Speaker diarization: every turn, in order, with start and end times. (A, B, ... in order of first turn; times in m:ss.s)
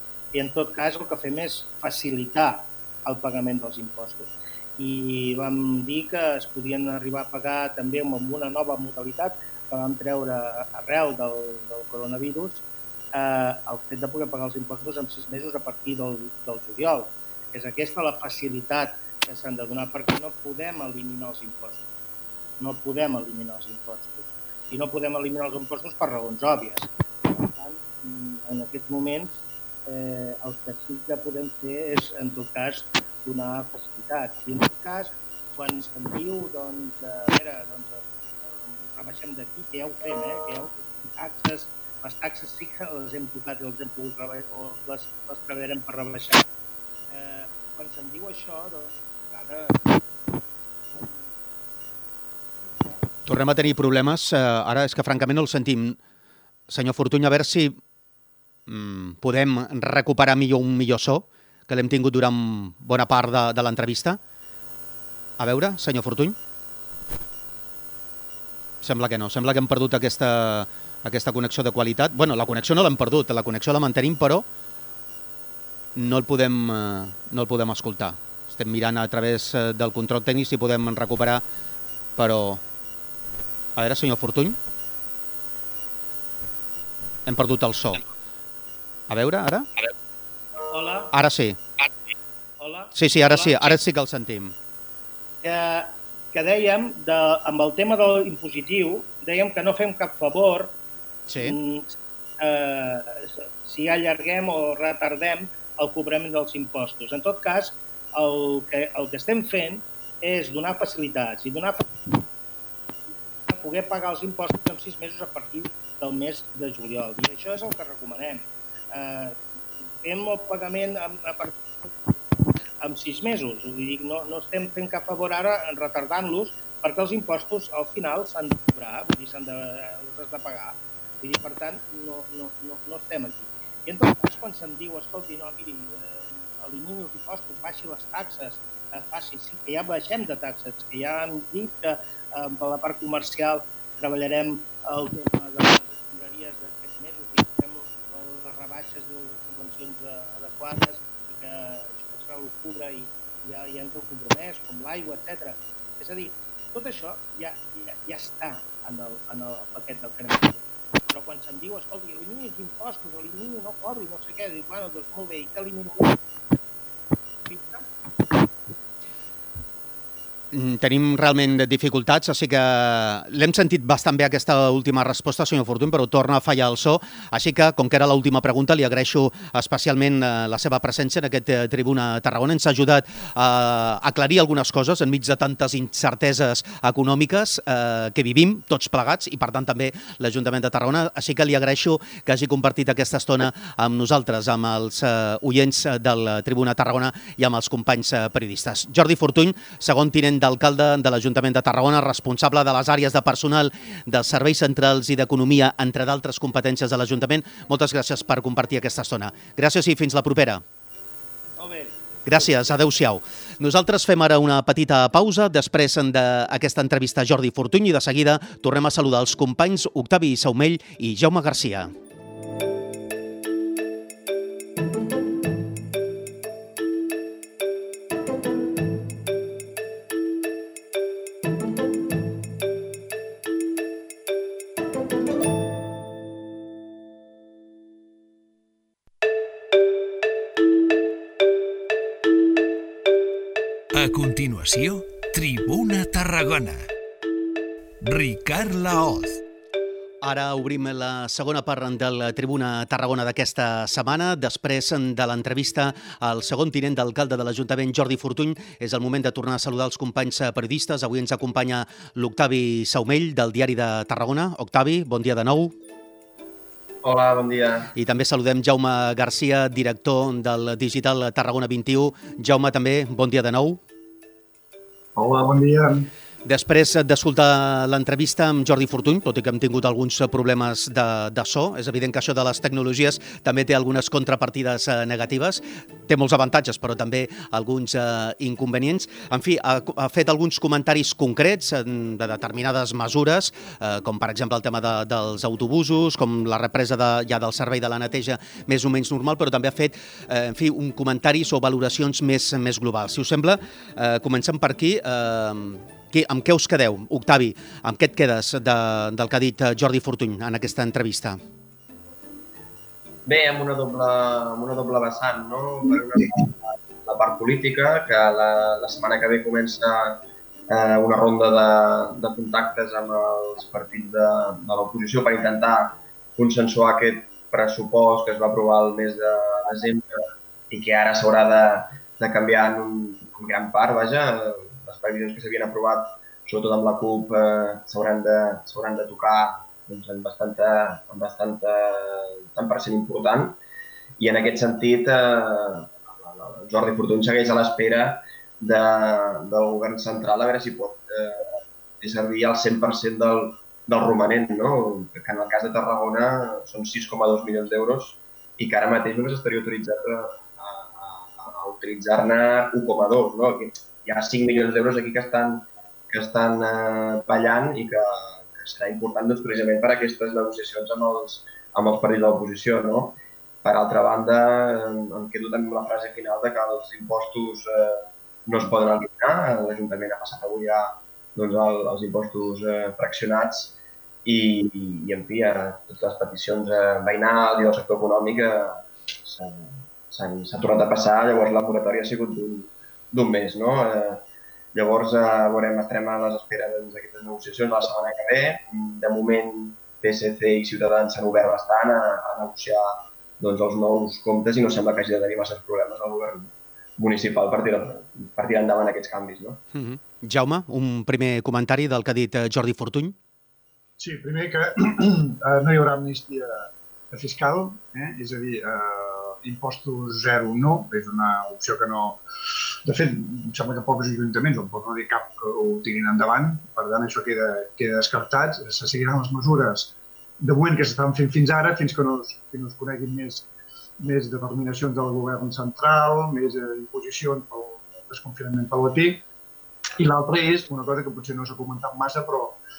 0:00.3-0:21.9 A
0:22.6-0:46.5 A
0:47.1-0:50.0 A
0:50.9-0:51.3 A
0:52.6-0:53.0 A
0:53.3-0:56.0 B
0:56.7-0:57.8 B
0:58.7-1:04.2 B
1:05.4-1:06.4 B
1:08.8-1:14.5 B
1:16.0-1:21.4 B
1:22.2-1:22.6 B
1:23.8-1:24.6 B
1:27.3-1:28.0 B
1:29.1-1:29.7 B
1:30.7-1:31.1 A
1:31.1-1:31.6 B
1:32.6-1:33.7 A
1:33.0-1:34.6 B
1:35.4-1:40.8 A
1:41.3-1:41.6 B
1:41.4-1:52.0 A
1:53.4-1:59.4 A
2:00.0-2:01.6 A
2:02.8-2:46.2 A
2:47.5-2:47.9 A
2:50.5-3:30.6 B
3:31.6-3:32.8 A
3:32.3-3:41.9 B
4:03.9-4:06.8 C
4:08.0-4:09.4 C
4:10.2-4:25.7 B
4:27.0-4:27.9 D
4:28.0-4:33.8 B
4:35.2-4:36.1 E
4:36.4-5:11.4 B
5:13.3-5:30.0 D
5:30.7-5:43.6 D
5:44.2-6:49.6 D
6:49.7-6:53.2 B
6:54.0-7:02.2 E
7:02.8-7:13.5 E
7:14.0-7:19.2 E
7:20.0-7:22.6 E